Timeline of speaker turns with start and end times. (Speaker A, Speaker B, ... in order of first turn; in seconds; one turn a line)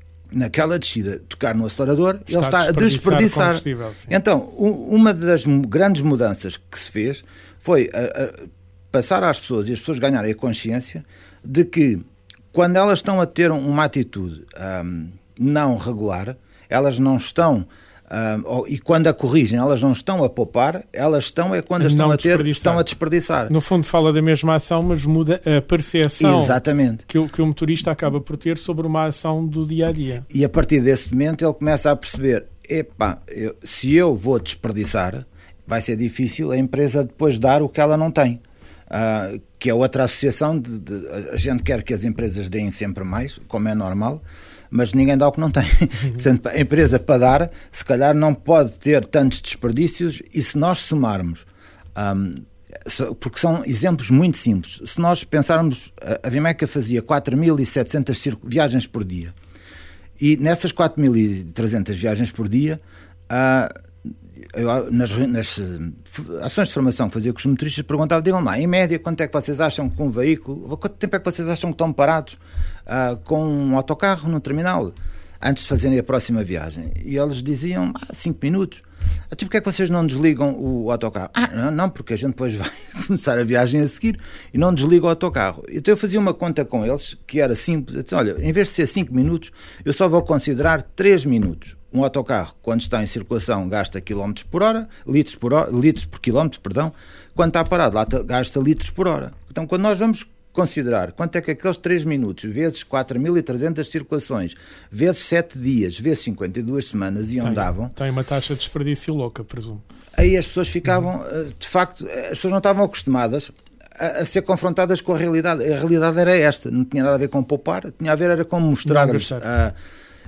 Speaker A: 0.3-23.5
Speaker B: 2.3-4.2
Speaker B: 21.8-22.9
Speaker B: 23.5-30.2
Speaker A: 26.2-27.0
Speaker A: 30.3-59.3
Speaker A: 60.2-63.7
Speaker A: 64.5-107.9
Speaker B: 107.4-109.8
Speaker A: 110.2-119.8
Speaker B: 118.8-119.5